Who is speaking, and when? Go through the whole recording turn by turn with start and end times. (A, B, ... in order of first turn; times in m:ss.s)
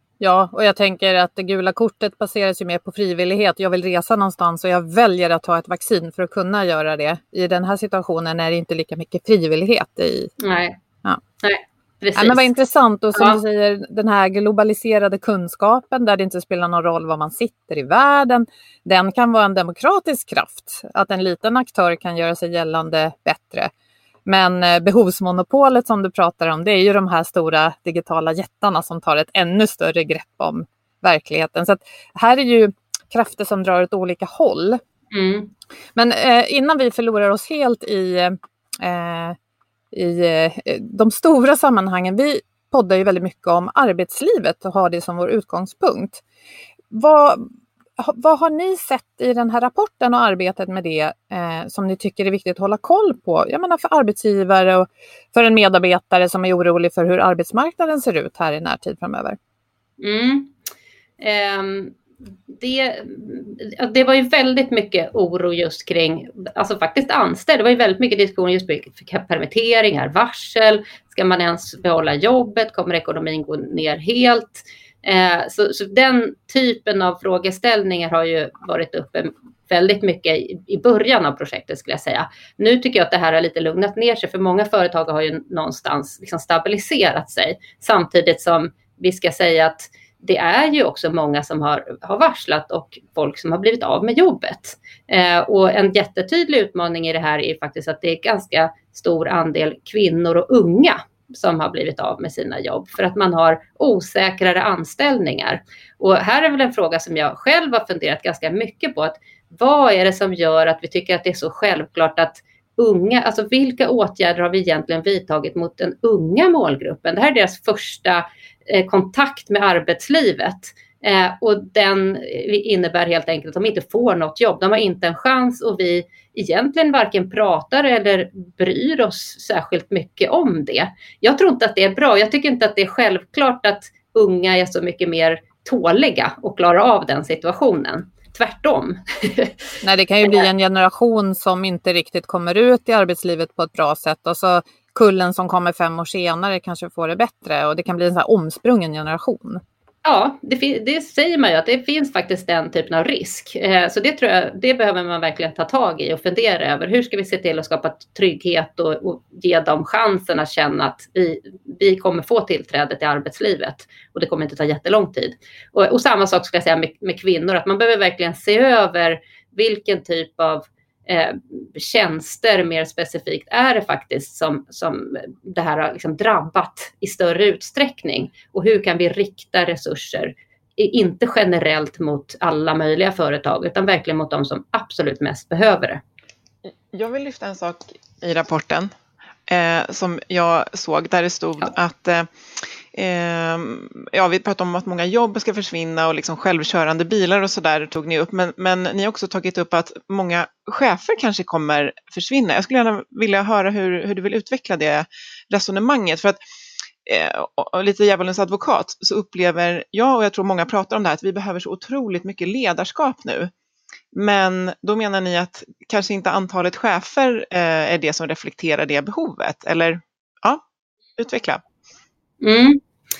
0:00.2-0:10.3 A
0:10.4-0:10.8 B
0:11.4-0:12.5 B
0:12.2-0:23.7 A
0:13.1-0:13.4 B
0:24.2-0:34.8 A
0:35.1-0:35.5 B
0:35.9-0:39.4 A
0:39.9-0:46.2 A
0:46.9-0:59.4 A
1:00.0-1:00.5 B
1:01.2-1:02.0 B
1:02.5-2:19.6 B
2:19.8-2:29.6 A
2:30.0-3:06.0 B
3:06.9-3:08.9 C
3:09.5-3:12.3 C
3:12.9-3:26.4 C
3:27.0-3:33.5 C
3:34.1-3:40.6 C
3:41.2-3:41.6 C
3:42.4-3:42.8 B